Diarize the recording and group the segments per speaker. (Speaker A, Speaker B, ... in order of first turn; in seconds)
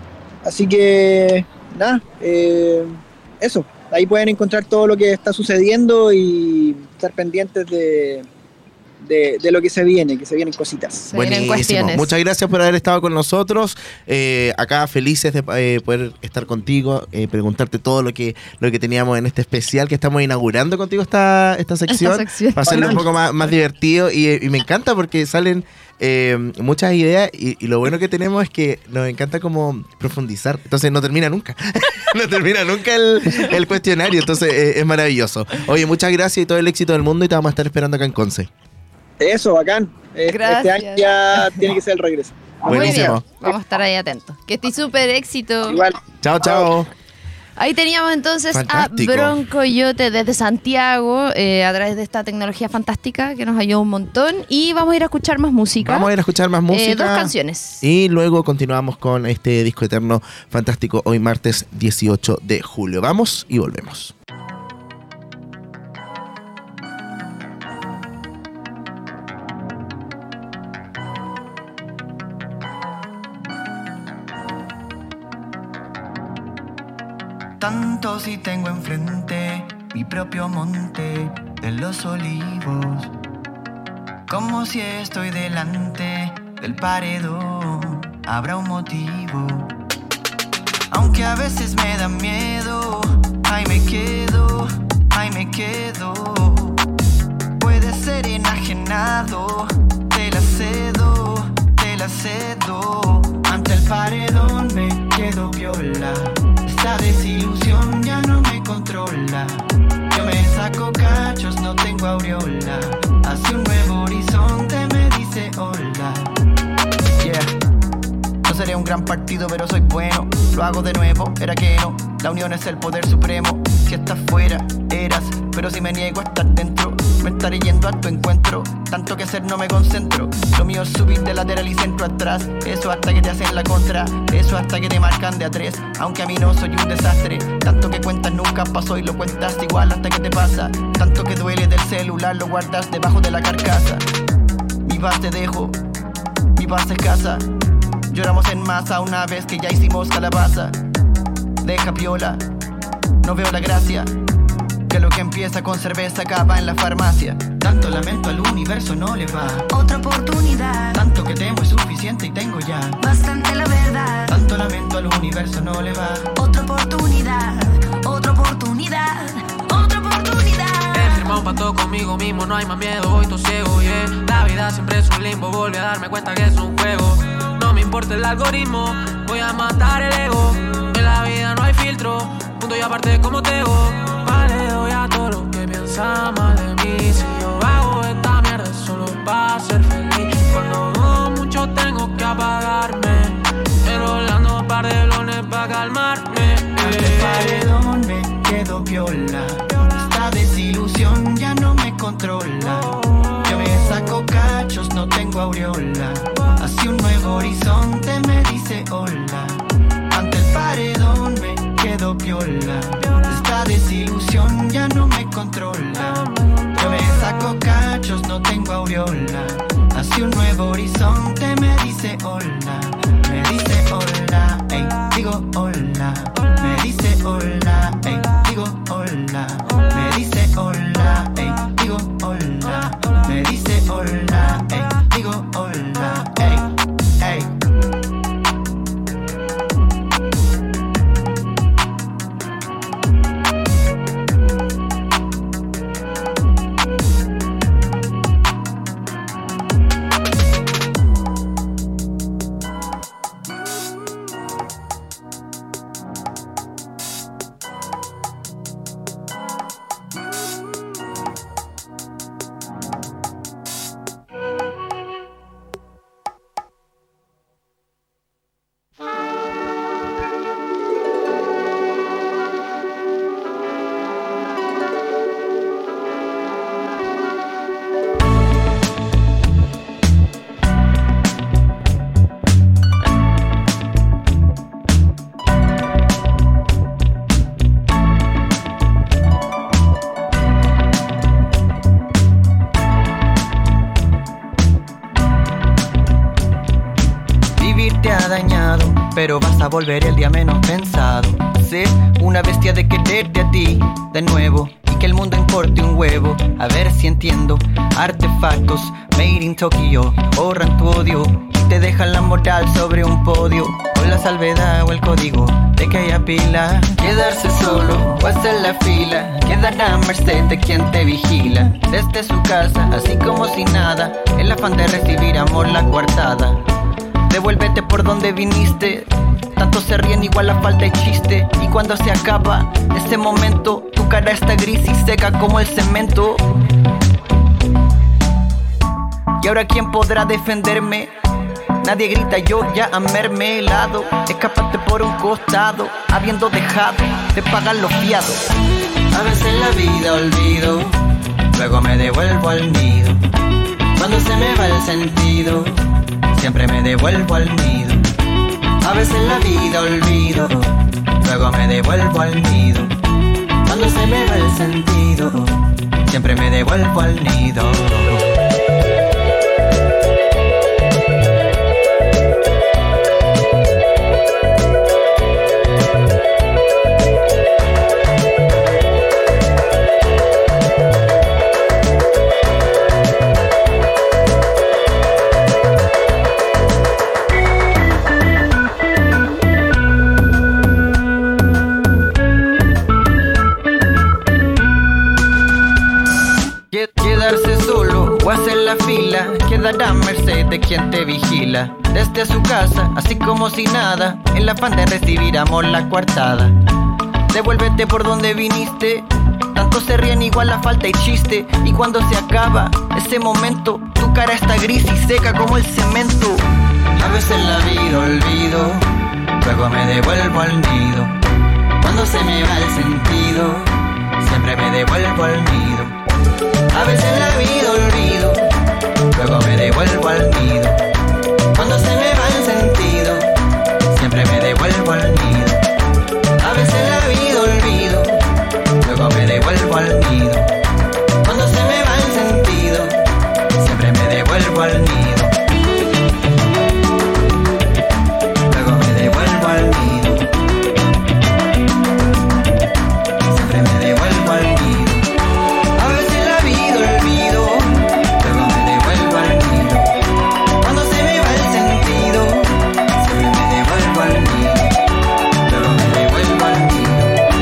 Speaker A: 0.4-8.3, 9.0-11.1, 22.7-23.0, 39.2-43.2, 45.7-46.7
Speaker B: 11.1-12.1, 21.9-23.0, 40.3-41.6, 42.7-45.8, 47.6-56.1, 56.7-57.8
Speaker C: 11.1-38.5, 42.7-43.2, 46.2-46.9, 48.5-49.4, 55.8-64.1
Speaker D: 77.6-83.1, 84.3-89.7, 90.9-96.8, 97.6-116.3, 117.2-117.5, 118.5-144.0, 144.8-145.8, 146.6-147.5, 148.1-150.8, 151.6-152.4, 153.2-154.1, 154.9-159.7, 160.9-163.0, 164.3-166.3, 196.8-237.5, 297.6-326.6, 327.3-336.5, 339.4-341.1, 341.8-348.5, 349.1-350.9, 351.5-353.2, 354.0-355.8, 356.3-358.1, 358.8-362.9, 363.7-368.3, 396.7-406.6, 407.3-416.5, 417.0-418.9, 419.4-421.1, 421.8-425.9, 426.7-428.5, 429.1-430.8, 431.5-433.3, 433.9-435.6, 436.4-438.2, 438.8-440.5, 441.2-443.0, 443.6-445.3, 448.5-450.3, 453.3-455.1, 455.8-459.9, 460.6-464.8, 465.4-467.2
Speaker E: 159.7-161.1, 163.0-164.4, 166.3-171.4
Speaker F: 170.9-197.7